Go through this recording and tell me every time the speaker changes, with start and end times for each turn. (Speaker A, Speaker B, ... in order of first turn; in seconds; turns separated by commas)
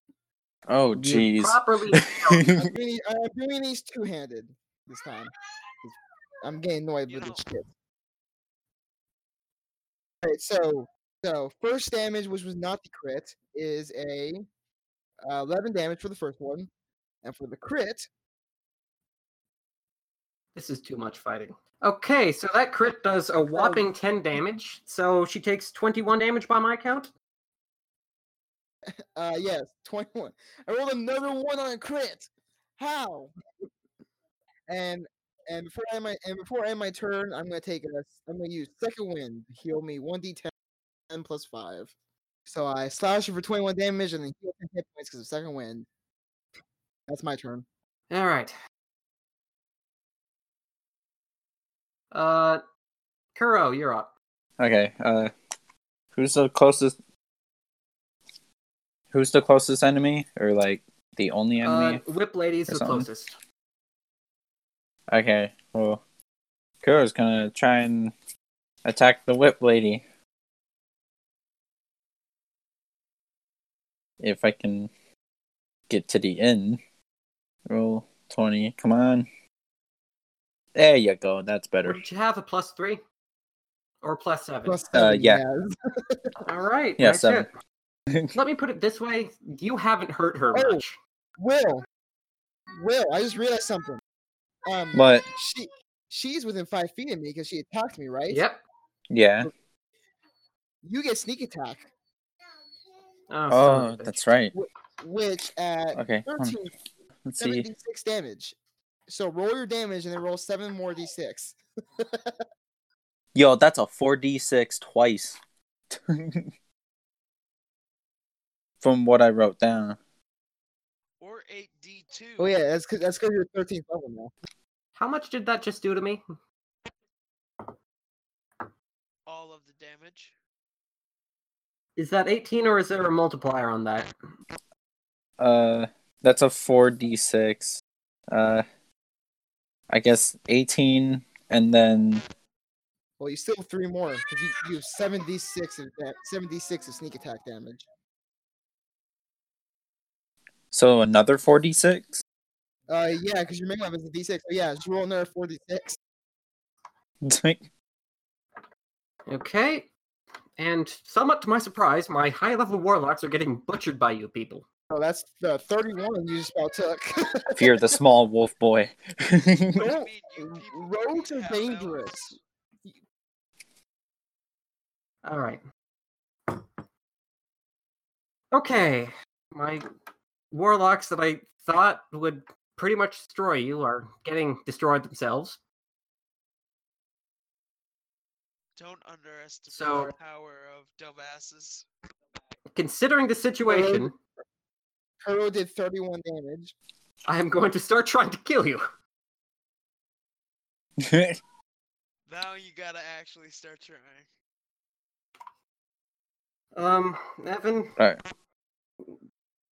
Speaker A: 0.7-2.7, Speaker B: 1.0-2.5, Speaker C: 2.5-5.3, Speaker C: 5.8-7.7, Speaker D: 7.1-7.4, Speaker C: 10.2-14.4, Speaker C: 15.2-16.7, Speaker C: 17.2-18.1, Speaker B: 20.5-27.1, Speaker C: 23.4-23.9, Speaker C: 28.9-33.3, Speaker C: 34.7-40.5, Speaker C: 41.1-41.9, Speaker C: 42.5-45.9, Speaker C: 47.1-47.6, Speaker B: 48.1-48.5, Speaker B: 52.1-52.6, Speaker B: 53.3-54.1, Speaker A: 54.6-55.3, Speaker A: 56.1-56.9, Speaker A: 59.1-62.0, Speaker B: 61.6-63.4, Speaker A: 62.7-63.1, Speaker A: 65.1-66.0, Speaker A: 66.8-68.1, Speaker A: 68.8-70.0, Speaker A: 74.2-74.9, Speaker A: 75.9-76.8, Speaker A: 77.7-79.3, Speaker A: 80.7-82.0, Speaker B: 81.8-83.0, Speaker B: 84.0-84.8, Speaker C: 84.7-86.3, Speaker A: 84.9-85.4, Speaker B: 86.4-87.5, Speaker A: 87.0-87.5, Speaker A: 88.1-88.3, Speaker B: 88.3-91.0, Speaker C: 90.5-90.8, Speaker C: 91.4-91.8, Speaker C: 92.8-94.0, Speaker C: 94.7-98.4, Speaker A: 94.9-95.3, Speaker B: 98.3-98.6, Speaker A: 99.1-99.5, Speaker C: 100.8-101.9, Speaker B: 103.3-104.2, Speaker A: 103.5-104.5, Speaker C: 104.5-106.7, Speaker A: 105.9-106.5, Speaker A: 107.3-107.7, Speaker C: 107.4-108.5, Speaker C: 109.1-112.4, Speaker A: 113.3-115.4, Speaker A: 115.9-116.5, Speaker A: 118.8-120.0, Speaker D: 121.2-122.5, Speaker C: 122.4-124.3, Speaker B: 125.0-126.2, Speaker D: 129.2-130.3, Speaker B: 132.0-134.1, Speaker A: 135.4-137.8, Speaker A: 138.3-138.6, Speaker A: 139.9-142.2, Speaker C: 143.2-147.8, Speaker A: 150.7-152.2, Speaker C: 152.9-156.0, Speaker A: 157.2-157.6, Speaker B: 159.3-159.9, Speaker B: 160.6-164.6, Speaker C: 164.9-168.0, Speaker A: 167.6-169.8, Speaker D: 169.8-172.4, Speaker C: 169.8-172.9, Speaker B: 175.2-175.6, Speaker B: 178.5-179.8, Speaker B: 180.5-185.6, Speaker D: 188.8-191.9, Speaker B: 189.7-190.1, Speaker B: 192.7-194.1, Speaker C: 193.7-194.1, Speaker C: 195.2-196.7, Speaker B: 197.3-198.8, Speaker A: 201.0-201.4, Speaker D: 202.3-204.3, Speaker B: 206.7-207.9